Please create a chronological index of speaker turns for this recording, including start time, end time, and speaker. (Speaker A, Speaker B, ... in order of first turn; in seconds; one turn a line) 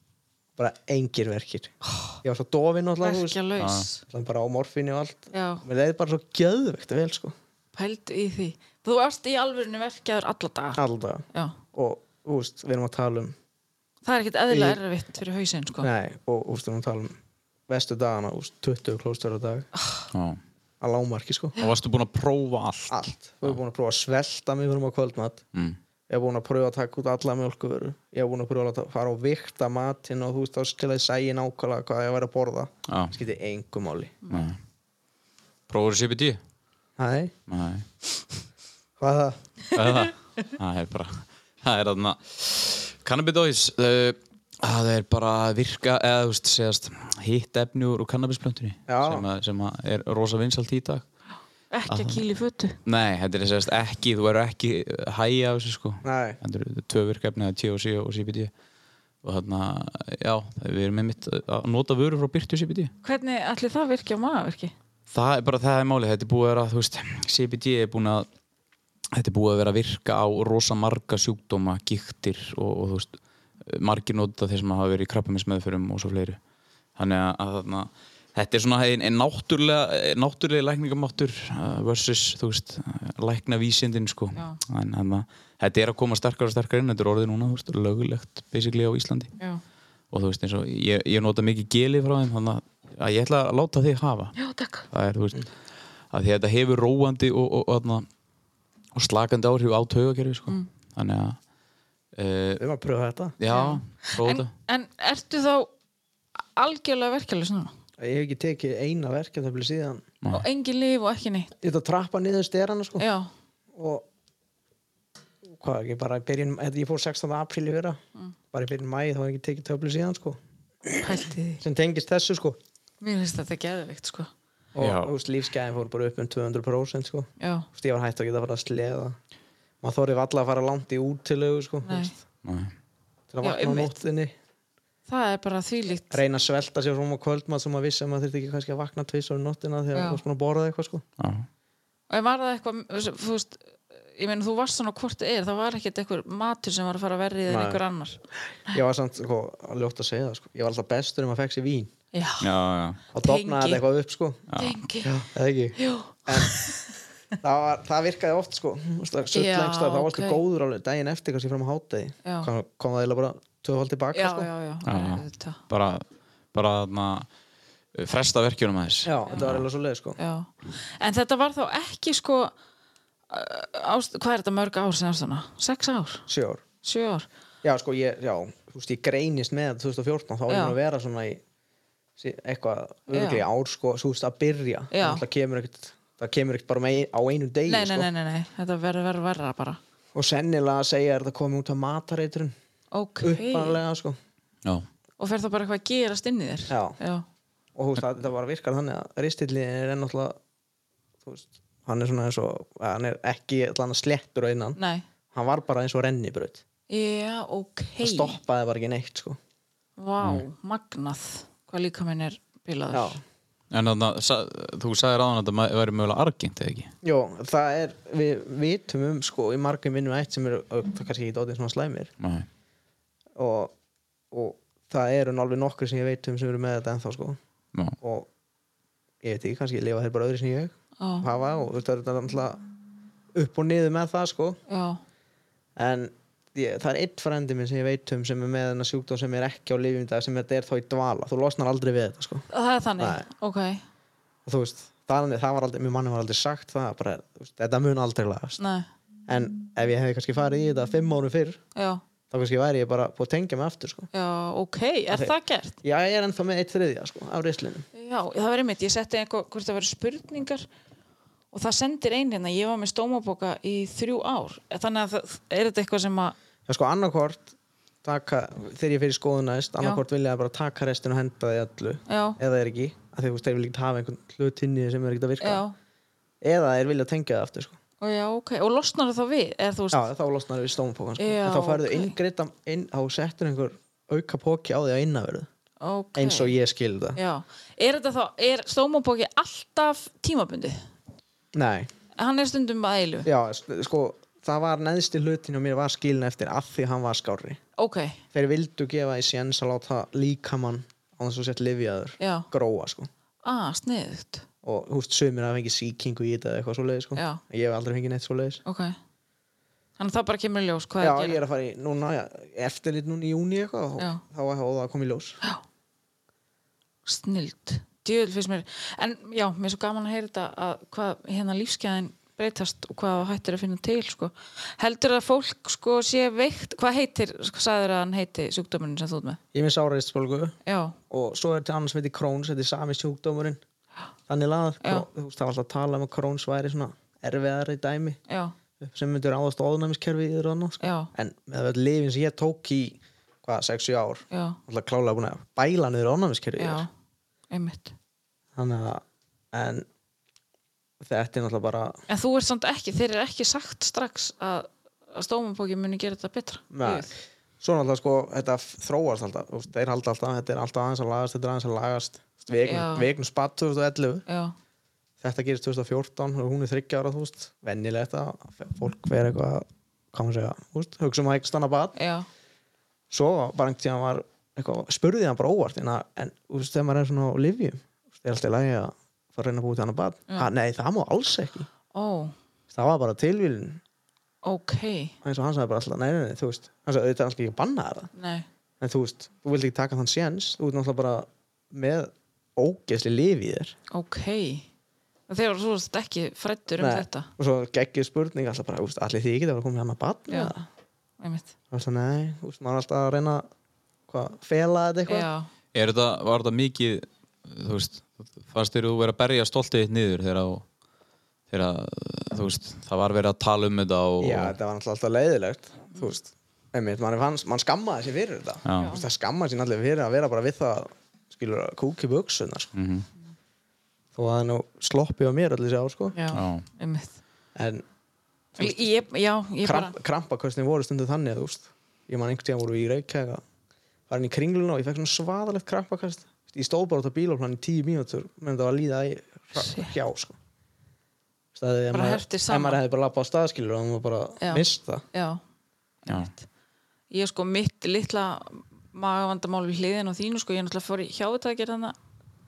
Speaker A: 0.6-3.4
Speaker B: 1.9-2.1
Speaker B: 3.0-4.0
Speaker C: 3.6-3.9
Speaker A: 4.1-7.3
Speaker B: 5.3-5.6
Speaker B: 7.7-10.8
Speaker A: 10.8-13.4
Speaker B: 14.1-15.9
Speaker A: 14.5-14.8
Speaker A: 15.8-17.1
Speaker A: 17.7-19.7
Speaker C: 20.1-20.4
Speaker A: 20.8-21.6
Speaker C: 21.6-23.6
Speaker A: 22.9-25.4
Speaker A: 26.1-34.2
Speaker C: 32.9-33.1
Speaker C: 34.3-34.6
Speaker C: 35.7-36.4
Speaker A: 37.0-37.3
Speaker C: 37.5-37.9
Speaker A: 39.0-39.4
Speaker C: 39.7-51.0
Speaker A: 48.9-49.3
Speaker B: 51.7-52.8
Speaker C: 51.9-52.2
Speaker C: 52.8-58.5
Speaker A: 56.0-56.4
Speaker C: 59.2-62.9
Speaker B: 63.0-64.7
Speaker C: 65.1-68.3
Speaker C: 69.1-76.4
Speaker C: 77.0-89.3
Speaker B: 84.3-84.6
Speaker C: 90.1-94.4
Speaker B: 94.4-94.9
Speaker C: 94.9-95.5
Speaker C: 96.1-98.0
Speaker C: 98.9-101.4
Speaker C: 102.2-102.6
Speaker A: 102.6-103.4
Speaker C: 103.4-104.5
Speaker B: 103.5-105.7
Speaker B: 106.5-107.7
Speaker A: 108.0-110.0
Speaker B: 110.3-111.5
Speaker A: 111.6-113.0
Speaker B: 113.0-113.3
Speaker A: 113.7-114.1
Speaker A: 115.4-118.0
Speaker A: 118.5-121.0
Speaker B: 121.0-121.6
Speaker A: 121.6-122.6
Speaker B: 123.0-124.3
Speaker A: 124.7-129.2
Speaker C: 124.8-125.1
Speaker B: 127.4-127.7
Speaker A: 129.8-132.2
Speaker B: 131.8-132.1
Speaker C: 132.4-132.7
Speaker A: 133.3-134.3
Speaker B: 133.4-133.9
Speaker B: 135.1-136.2
Speaker A: 136.1-141.0
Speaker B: 139.9-140.2
Speaker C: 141.2-141.4
Speaker B: 142.1-148.2
Speaker A: 147.5-147.8
Speaker A: 148.7-151.9
Speaker B: 152.1-152.5
Speaker C: 152.4-153.0
Speaker A: 153.1-154.4
Speaker B: 153.1-153.8
Speaker C: 154.5-154.8
Speaker B: 154.6-155.2
Speaker A: 155.0-156.5
Speaker B: 155.8-156.8
Speaker A: 157.4-164.5
Speaker B: 159.3-160.4
Speaker B: 162.2-162.5
Speaker B: 164.1-165.6
Speaker C: 164.8-167.3
Speaker C: 167.9-169.6
Speaker A: 169.1-170.2
Speaker B: 170.2-172.5
Speaker B: 173.3-176.3
Speaker A: 176.3-176.6
Speaker B: 176.8-177.3
Speaker A: 177.6-181.4
Speaker B: 180.5-180.8
Speaker A: 182.2-188.1
Speaker B: 183.1-183.4
Speaker B: 184.9-185.2
Speaker B: 187.7-189.8
Speaker A: 190.1-192.5
Speaker B: 192.9-193.8
Speaker A: 193.2-194.2
Speaker B: 195.2-197.2
Speaker A: 196.7-197.0
Speaker A: 197.7-200.4
Speaker A: 201.2-204.8
Speaker B: 204.8-205.1
Speaker A: 205.3-206.6
Speaker B: 206.9-208.4
Speaker A: 208.0-209.4
Speaker B: 210.0-213.2
Speaker A: 212.9-213.2
Speaker C: 213.7-216.9
Speaker A: 217.0-222.1
Speaker C: 222.2-222.5
Speaker A: 223.4-223.7
Speaker A: 224.3-227.4
Speaker A: 228.0-228.3
Speaker A: 229.2-232.6
Speaker B: 231.0-231.3
Speaker A: 233.3-234.6
Speaker B: 234.7-235.0
Speaker A: 235.8-242.5
Speaker B: 242.5-243.8
Speaker A: 243.0-243.3
Speaker A: 244.4-248.6
Speaker B: 248.6-248.9
Speaker A: 249.3-251.6
Speaker B: 251.7-252.0
Speaker A: 252.3-254.1
Speaker B: 254.1-255.8
Speaker A: 255.1-257.9
Speaker B: 257.9-260.6
Speaker B: 261.5-266.3
Speaker A: 266.7-267.5
Speaker A: 268.0-275.6
Speaker B: 272.1-272.4
Speaker B: 275.4-275.7
Speaker A: 276.4-277.8
Speaker B: 278.0-280.0
Speaker A: 279.9-285.5
Speaker B: 281.2-282.1
Speaker B: 285.8-286.6
Speaker A: 286.1-287.2
Speaker B: 287.1-290.9
Speaker A: 291.5-291.9
Speaker B: 292.2-293.3
Speaker A: 293.2-297.6
Speaker B: 297.8-298.2
Speaker A: 298.3-303.1
Speaker B: 302.2-302.5
Speaker B: 303.4-304.4
Speaker A: 304.6-308.6
Speaker B: 307.1-307.4
Speaker B: 308.6-308.9
Speaker B: 310.0-311.4
Speaker A: 311.0-315.4
Speaker B: 317.1-329.4
Speaker A: 329.5-330.6
Speaker B: 330.6-331.0
Speaker A: 331.1-333.6
Speaker A: 334.3-338.2
Speaker B: 338.3-338.6
Speaker A: 338.8-346.9
Speaker B: 340.8-341.1
Speaker B: 344.3-344.6
Speaker B: 346.6-346.9
Speaker B: 347.5-347.9
Speaker A: 348.6-349.9
Speaker A: 351.0-352.0
Speaker B: 352.1-357.1
Speaker A: 356.7-364.2
Speaker B: 362.6-363.1
Speaker B: 364.3-364.5
Speaker A: 365.2-371.9
Speaker B: 371.9-372.3
Speaker A: 373.1-381.7
Speaker B: 381.9-382.3
Speaker A: 382.7-383.8
Speaker B: 384.4-385.1
Speaker A: 385.2-388.1
Speaker B: 388.1-388.4
Speaker A: 388.8-393.7
Speaker B: 393.9-394.6
Speaker B: 395.3-397.3
Speaker A: 396.8-400.7
Speaker B: 400.3-400.5
Speaker B: 401.2-401.5
Speaker A: 401.7-403.5
Speaker A: 404.1-405.3
Speaker B: 405.1-405.5
Speaker C: 405.7-410.6
Speaker C: 411.5-414.6
Speaker A: 414.2-422.7
Speaker C: 418.6-418.9
Speaker C: 422.7-423.1
Speaker A: 424.1-426.2
Speaker B: 426.1-427.2
Speaker C: 426.3-426.6
Speaker A: 427.6-427.8
Speaker A: 428.6-428.8
Speaker B: 428.6-429.9
Speaker A: 429.6-433.4
Speaker A: 434.1-440.4
Speaker B: 439.6-439.9
Speaker A: 441.6-445.0
Speaker B: 441.9-442.8
Speaker B: 444.4-445.4
Speaker B: 446.1-446.4
Speaker B: 447.1-451.9